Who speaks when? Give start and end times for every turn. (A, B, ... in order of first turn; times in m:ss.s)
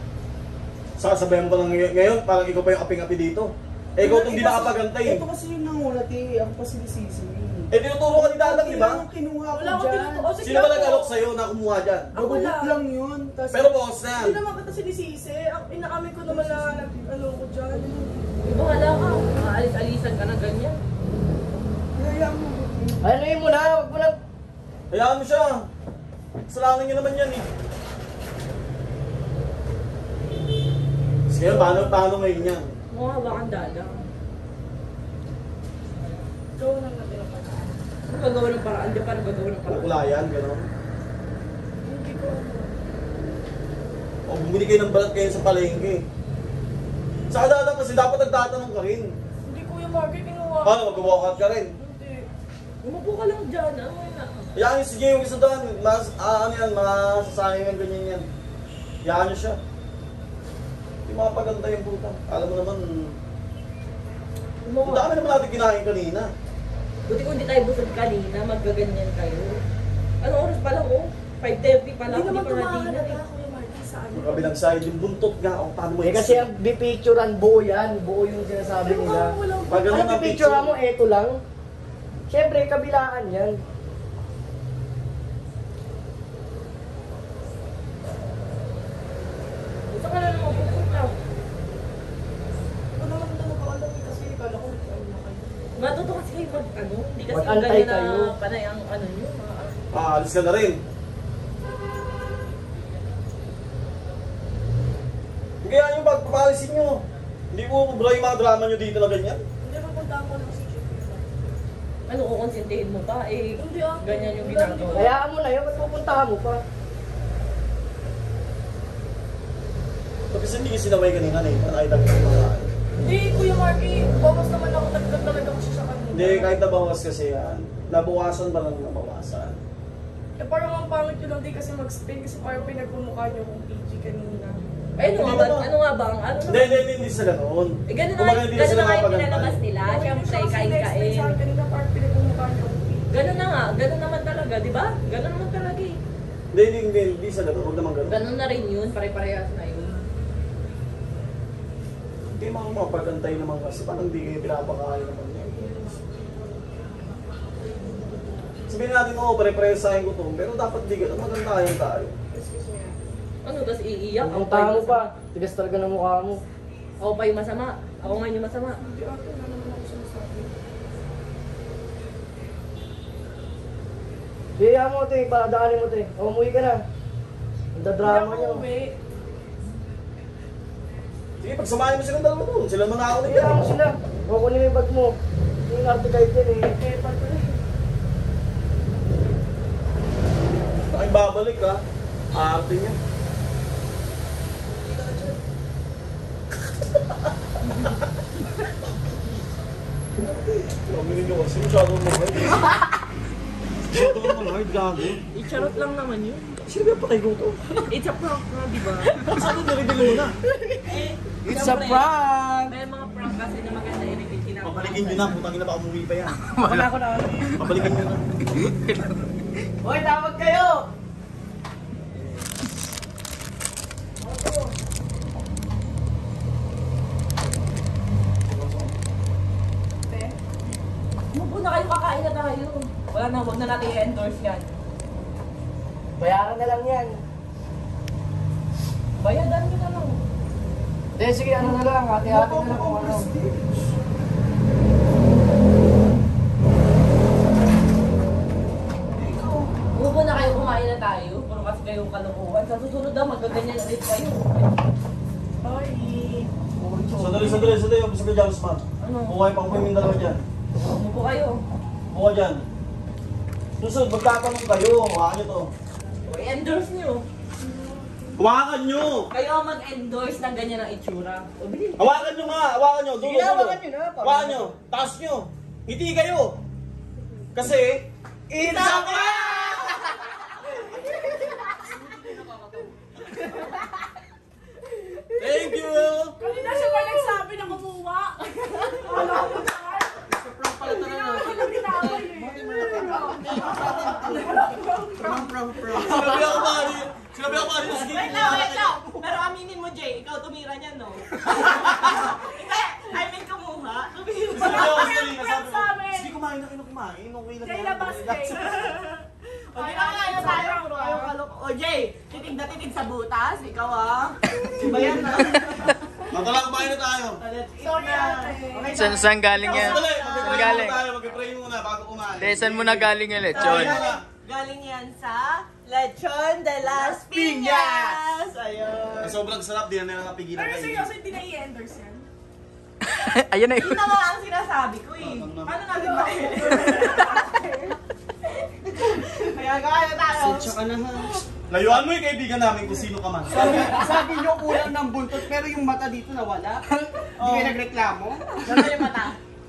0:01.0-0:05.2 A
0:04.0-0:10.4 B
0:07.7-0:09.0 A
0:09.5-0:11.2 C
0:10.4-0:12.1 A
0:12.1-0:13.7 B
0:12.1-0:12.8 C
0:13.5-0:14.4 A
0:14.1-0:18.0 C
0:16.3-0:17.0 B
0:17.7-0:18.3 B
0:18.4-0:20.8 D
0:22.0-0:23.0 B
0:23.0-0:24.1 E
0:24.9-0:25.6 A
0:26.5-0:27.4 A
0:31.3-0:32.7 A
0:31.5-0:32.0 C
0:32.9-0:34.1 D
0:36.6-0:37.8 C
0:38.1-0:40.0 D
0:39.7-0:40.7 A
0:41.8-0:42.8 C
0:44.3-0:46.0 A
0:47.3-0:49.1 A
0:49.4-0:52.3 C
0:50.6-0:51.7 A
0:52.8-0:54.5 D
0:54.6-0:58.2 A
0:59.0-0:59.6 A
1:01.1-1:03.2 A
1:04.6-1:05.4 D
1:04.8-1:06.3 A
1:07.1-1:09.6 D
1:10.2-1:13.2 D
1:12.1-1:14.5 C
1:14.1-1:16.5 A
1:16.0-1:21.4 E
1:18.8-1:19.9 C
1:19.7-1:20.7 A
1:22.3-1:23.6 E
1:29.9-1:31.1 D
1:32.9-1:35.6 C
1:35.8-1:39.8 D
1:37.3-1:38.3 E
1:39.9-1:40.8 A
1:45.6-1:49.4 A
1:49.6-1:51.3 C
1:52.1-1:55.1 D
1:53.6-1:55.2 C
1:54.9-1:56.6 E
2:00.3-2:02.7 A
2:03.0-2:06.5 C
2:06.1-2:09.6 A
2:10.4-2:14.6 C
2:15.0-2:16.9 D
2:15.0-2:15.7 A
2:16.5-2:19.6 A
2:17.9-2:21.4 D
2:19.8-2:23.3 C
2:23.1-2:26.0 D
2:26.5-2:28.2 A
2:28.1-2:30.0 D
2:32.3-2:35.6 A
2:35.6-2:36.1 C
2:38.7-2:42.1 A
2:42.3-2:43.0 C
2:43.4-2:45.1 D
2:44.2-2:46.4 E
2:47.0-2:48.8 D
2:48.8-2:50.5 C
2:54.6-2:56.8 E
2:57.7-2:58.6 E
2:58.0-2:59.0 C
3:01.4-3:03.6 A
3:03.2-3:05.1 E
3:05.7-3:06.8 E
3:06.8-3:07.6 C
3:10.9-3:11.8 A
3:12.3-3:13.0 A
3:17.6-3:17.9 D
3:20.8-3:22.7 A
3:23.8-3:25.2 A
3:25.3-3:26.6 D
3:26.7-3:27.5 A
3:27.8-3:29.2 D
3:29.3-3:30.3 A
3:30.8-3:32.1 D
3:31.5-3:32.7 E
3:32.7-3:35.4 D
3:34.6-3:36.4 A
3:36.4-3:37.8 F
3:36.6-3:37.4 E
3:37.6-3:38.2 A
3:39.8-3:40.7 E
3:44.2-3:44.7 C
3:48.4-3:49.0 A
3:50.1-3:50.3 C
3:51.3-3:54.7 D
3:56.2-3:57.2 E
3:59.2-4:00.2 D
4:01.2-4:03.3 E
4:01.6-4:04.0 B
4:09.2-4:09.7 B
4:09.9-4:14.7 D
4:15.6-4:16.5 C
4:16.8-4:17.7 B
4:17.2-4:20.4 A
4:19.0-4:19.4 D
4:20.8-4:21.6 D
4:22.1-4:22.6 A
4:23.8-4:25.7 A
4:26.2-4:27.2 D
4:28.4-4:29.3 A
4:29.3-4:32.4 D
4:32.0-4:36.6 A
4:33.2-4:34.8 E
4:37.5-4:38.1 A
4:38.5-4:39.9 E
4:38.6-4:39.8 D
4:38.7-4:39.4 A
4:41.9-4:42.9 B
4:45.4-4:46.4 A
4:46.4-4:50.2 C
4:50.2-4:56.3 B
4:50.8-4:53.6 C
4:54.2-4:55.5 C
4:55.9-4:58.9 A
4:56.2-4:56.7 D
4:56.2-4:56.5 C
4:57.7-5:05.1 D
5:04.5-5:08.8 A
5:04.6-5:06.3 C
5:07.6-5:09.0 C
5:09.7-5:15.6 D
5:09.8-5:11.3 C
5:14.8-5:15.3 C
5:16.3-5:17.4 A
5:17.4-5:20.8 D
5:17.8-5:20.5 C
5:18.9-5:21.0 F
5:19.6-5:24.2 A
5:22.4-5:24.0 F
5:23.5-5:24.2 C
5:23.5-5:29.4 D
5:27.3-5:27.7 B
5:29.2-5:31.1 A
5:30.5-5:32.2 C
5:33.2-5:34.1 F
5:33.7-5:37.6 D
5:35.2-5:35.9 A
5:35.9-5:37.7 C
5:36.7-5:37.0 F
5:38.9-5:40.7 D
5:40.3-5:41.4 B
5:41.7-5:44.1 A
5:43.4-5:46.8 B
5:43.6-5:44.0 D
5:47.4-5:48.4 B
5:47.4-5:47.8 A
5:48.6-5:49.3 D
5:48.7-5:49.0 E